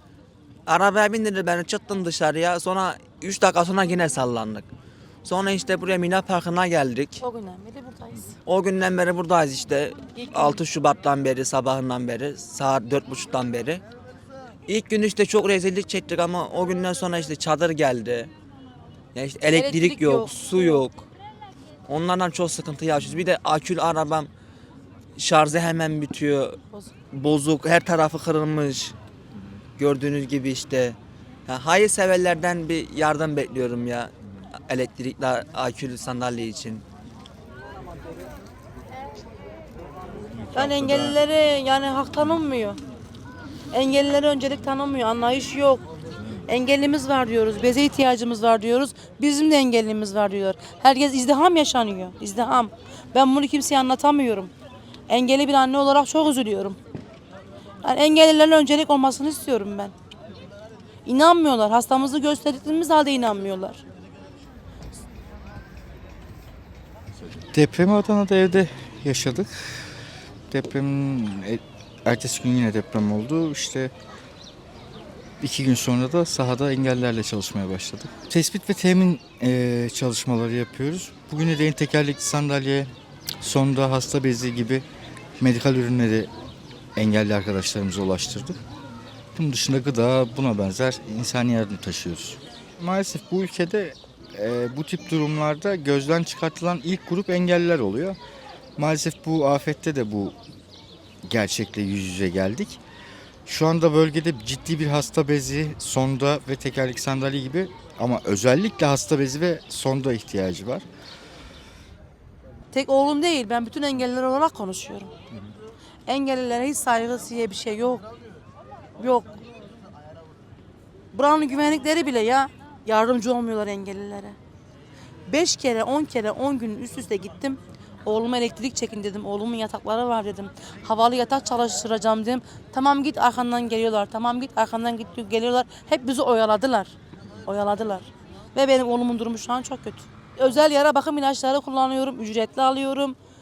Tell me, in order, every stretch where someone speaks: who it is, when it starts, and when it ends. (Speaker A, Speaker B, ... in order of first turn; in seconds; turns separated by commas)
Speaker A: 0.7-4.7, Speaker A: 5.2-7.2, Speaker B: 7.2-8.3, Speaker A: 8.4-13.8, Speaker B: 10.1-10.6, Speaker A: 14.7-18.3, Speaker A: 19.1-21.1, Speaker B: 19.5-20.8, Speaker A: 21.9-24.3, Speaker A: 25.2-26.6, Speaker A: 27.1-28.9, Speaker A: 29.8-34.1, Speaker A: 34.7-36.8, Speaker B: 40.5-42.8, Speaker B: 43.7-45.8, Speaker B: 46.4-54.5, Speaker B: 55.1-56.8, Speaker B: 57.8-59.9, Speaker B: 61.0-63.8, Speaker C: 67.5-69.8, Speaker C: 70.5-73.9, Speaker C: 75.4-82.9, Speaker C: 83.4-84.8, Speaker C: 85.4-86.3, Speaker C: 87.0-88.6, Speaker C: 89.3-98.2, Speaker C: 98.8-100.4, Speaker C: 101.3-102.8, Speaker C: 103.5-110.8, Speaker B: 112.7-115.1, Speaker B: 116.0-118.0, Speaker B: 119.0-119.4, Speaker B: 121.1-124.3, Speaker B: 125.3-143.2